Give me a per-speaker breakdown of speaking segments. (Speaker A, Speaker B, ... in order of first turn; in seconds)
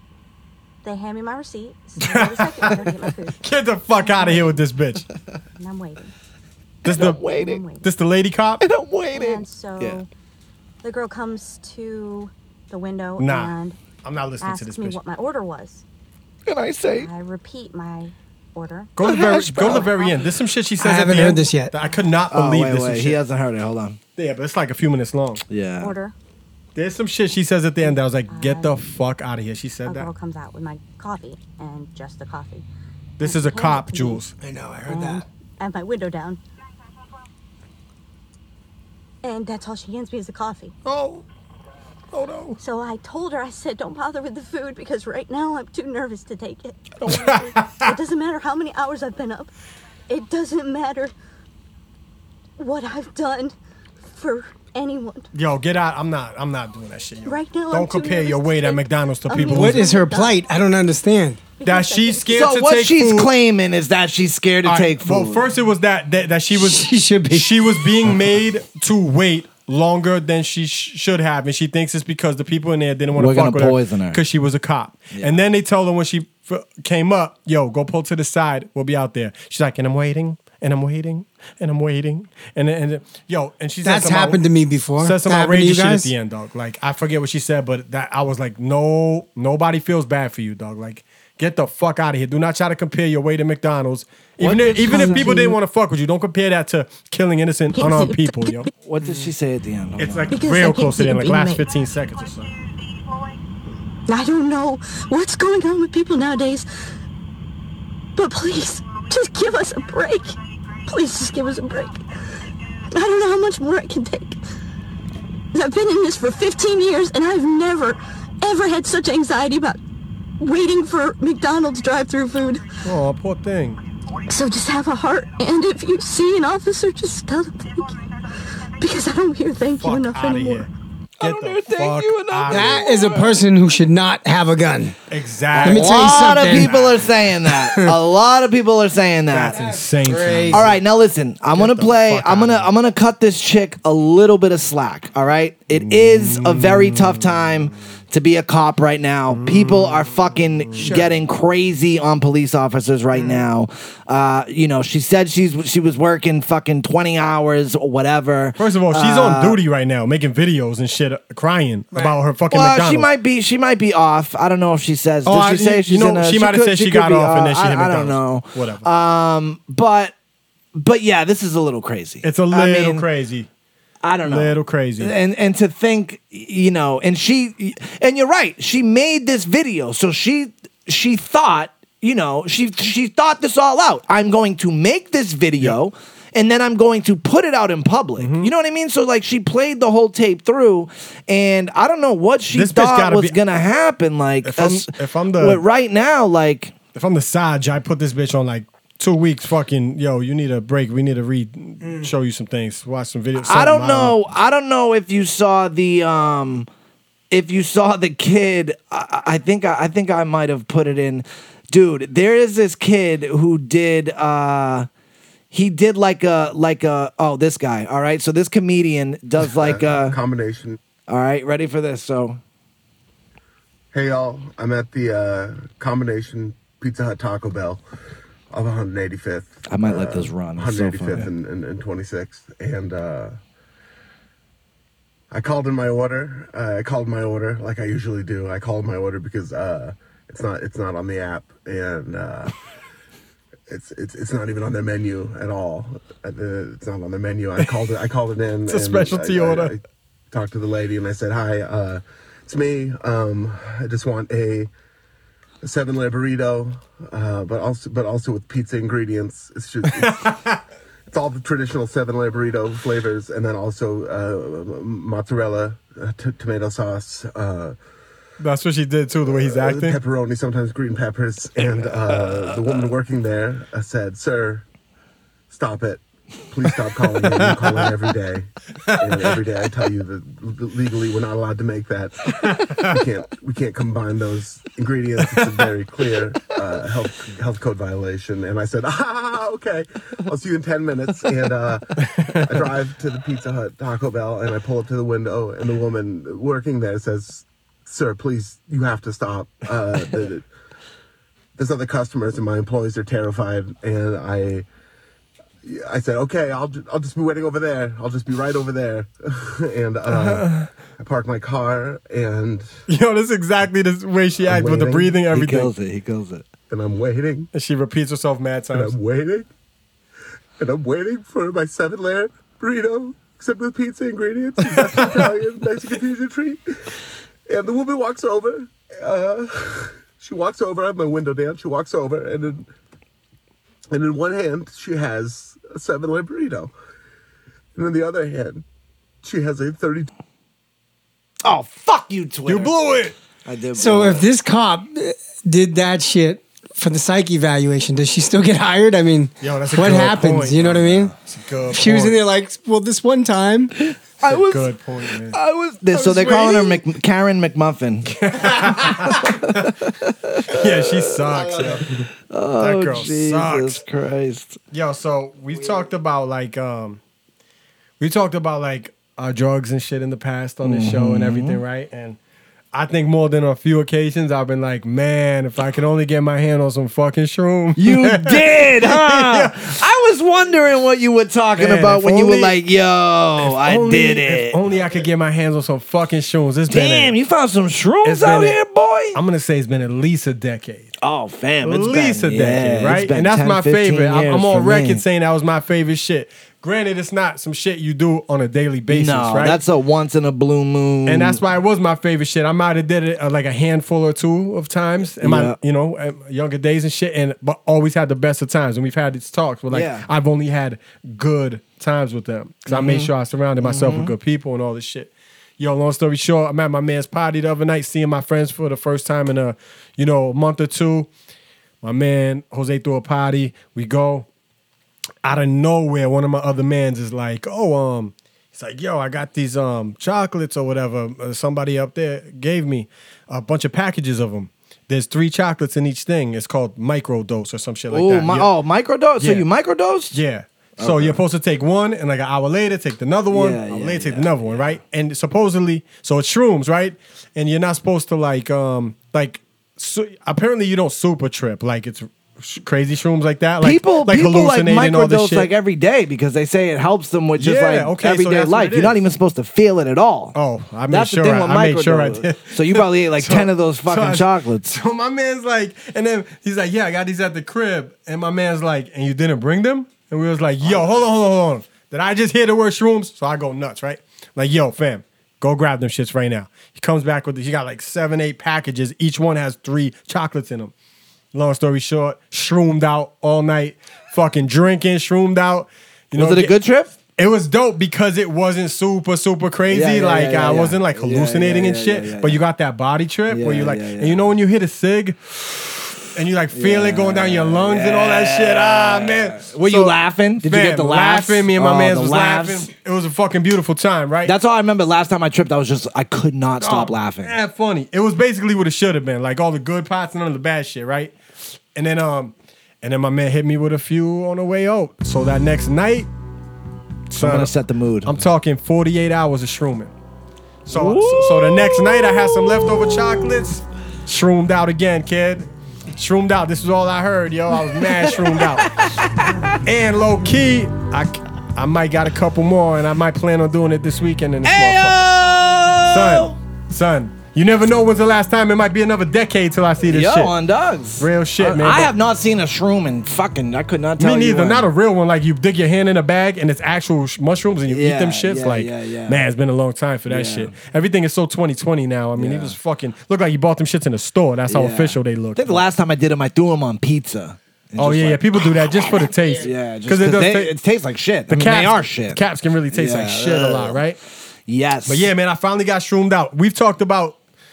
Speaker A: 0.8-3.4, 4.0-4.7, 5.6-6.1, 6.9-7.9, 9.1-10.1, 10.8-13.8, 14.4-15.8, 16.9-20.2, 25.8-26.1, 27.8-28.9, 29.9-32.6, 33.2-34.2, 34.9-36.4, 39.2-40.8, 42.6-49.5, 50.1-51.1, 52.6-53.6, 54.1-55.3, 57.2-60.4, 61.6-62.5, 94.8-95.6, 97.7-98.7, 100.3-101.7, 104.1-106.7, 108.2-112.0, 112.9-114.4, 115.5-119.8, 120.4-122.6, 124.3-128.0, 128.8-130.7
Speaker B: 2.0-5.1, 6.8-7.2, 7.8-8.6, 13.2-15.0, 19.0-23.2, 24.2-25.4, 26.8-30.1, 33.2-34.3, 40.9-41.2, 42.1-42.6, 47.0-48.0, 55.3-59.9, 61.6-63.3, 64.6-84.4, 85.0-98.7, 100.0-102.5, 122.8-123.8, 129.8-132.9, 135.1-137.1, 139.3-140.8, 141.5-142.7, 145.7-147.5, 149.3-151.0, 153.2-153.4, 158.6-163.1, 165.2-168.9, 172.2-173.5, 174.2-175.1, 188.2-188.5, 192.5-193.4, 194.4-195.6, 196.9-204.2, 248.7-249.7, 259.9-260.6, 268.4-270.0, 277.3-277.9, 278.9-279.4, 282.4-283.0, 285.2-285.5, 292.1-292.5, 310.1-310.7, 312.9-315.7, 317.5-318.9, 324.8-325.3, 342.5-343.2, 349.4-352.2, 354.2-355.4, 355.9-356.8, 358.1-359.7, 360.5-362.0, 362.6-363.8, 364.7-367.0, 368.0-372.2, 372.7-379.7, 381.6-382.6, 383.4-387.1, 388.0-388.6, 389.1-390.9, 391.6-399.6, 401.1-421.1, 421.8-424.3, 425.2-438.5, 439.2-439.5, 440.1-455.5, 457.4-459.0, 460.4-480.7, 481.3-486.6, 487.2-504.4, 506.6-511.1, 511.8-516.1, 517.1-519.9, 520.7-528.7, 529.6-535.2, 535.9-540.4, 541.0-541.9, 544.0-555.6, 557.8-560.5, 561.3-564.0, 564.9-567.2
Speaker C: 6.8-7.6, 8.6-10.0, 16.5-17.1, 19.0-19.9, 22.3-24.0, 25.5-25.9, 62.3-65.5, 73.2-74.2, 75.1-75.4, 94.5-95.3, 98.8-100.3, 131.2-133.4, 135.6-139.6, 140.5-159.6, 162.5-170.1, 170.8-173.1, 174.0-196.8, 203.4-206.7, 207.3-214.9, 215.5-220.2, 221.1-222.4, 229.7-231.3, 315.3-316.5, 341.4-342.7, 343.5-344.3, 353.9-354.7, 355.3-361.7, 362.3-364.6, 370.6-371.6, 377.8-384.6, 386.7-389.2, 391.0-395.0, 398.9-401.4, 405.2-405.6, 409.7-410.1, 412.7-414.1, 437.9-440.2, 440.8-441.2, 443.3-444.3, 453.6-460.4, 460.9-464.8, 486.1-486.9, 489.7-492.4, 493.3-494.3, 496.5-502.7, 504.2-507.4, 517.2-518.1, 520.7-523.3, 527.8-529.6, 534.5-536.4, 539.9-544.7, 547.7-549.2, 550.1-550.5, 552.2-552.5, 554.5-563.8, 564.5-565.1
Speaker D: 20.8-21.7, 34.4-35.3, 59.3-61.4, 66.5-68.2, 83.8-86.1, 94.5-95.1, 132.5-135.0, 135.6-136.8, 137.6-137.9, 139.5-140.7, 150.8-151.1, 343.8-351.1, 351.7-353.7
Speaker E: 219.5-220.8, 223.9-227.8, 228.5-233.3, 235.3-242.6, 243.7-254.7, 255.6-260.3, 261.1-267.8, 269.3-274.6, 275.5-300.5, 301.6-304.6, 305.6-312.7, 314.4-315.2, 316.7-317.5, 318.7-319.5, 320.6-326.6, 327.5-332.7, 333.9-336.7, 337.8-338.6, 339.2-340.1